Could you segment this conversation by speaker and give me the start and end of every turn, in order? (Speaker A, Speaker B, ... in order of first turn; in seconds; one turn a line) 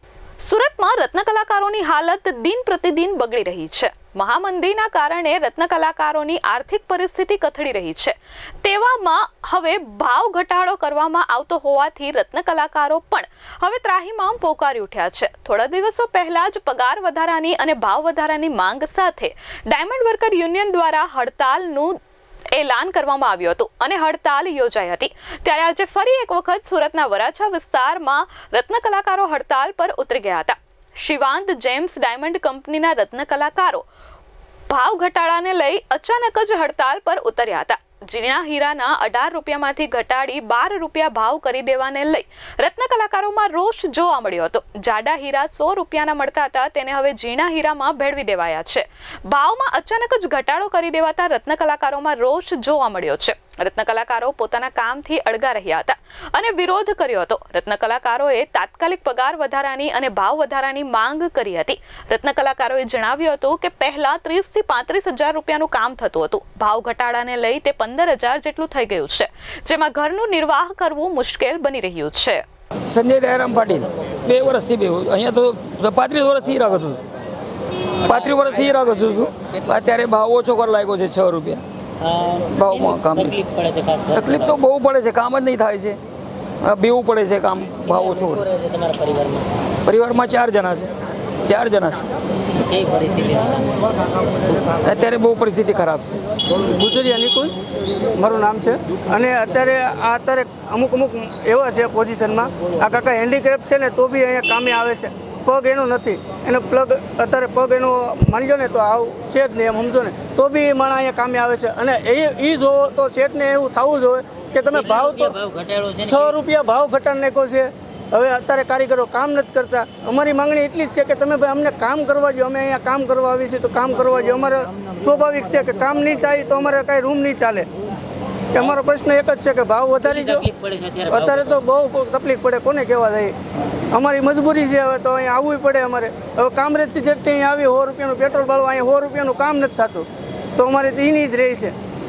Speaker A: 0.4-21.9
Speaker A: 22.5-33.8
Speaker A: 34.7-72.4
Speaker B: 72.9-77.0
Speaker B: 78.0-81.6
Speaker C: 82.0-84.5
Speaker B: 82.5-83.4
Speaker B: 84.1-86.0
Speaker B: 86.6-88.5
Speaker C: 87.9-89.5
Speaker B: 89.8-90.9
Speaker B: 91.4-92.0
Speaker C: 92.7-93.9
Speaker B: 94.8-96.2
Speaker D: 96.6-97.5
Speaker D: 98.2-115.4
Speaker C: 114.7-116.4
Speaker D: 116.0-127.7
Speaker D: 128.5-130.5
Speaker C: 130.0-131.6
Speaker D: 131.1-133.3
Speaker D: 133.9-141.7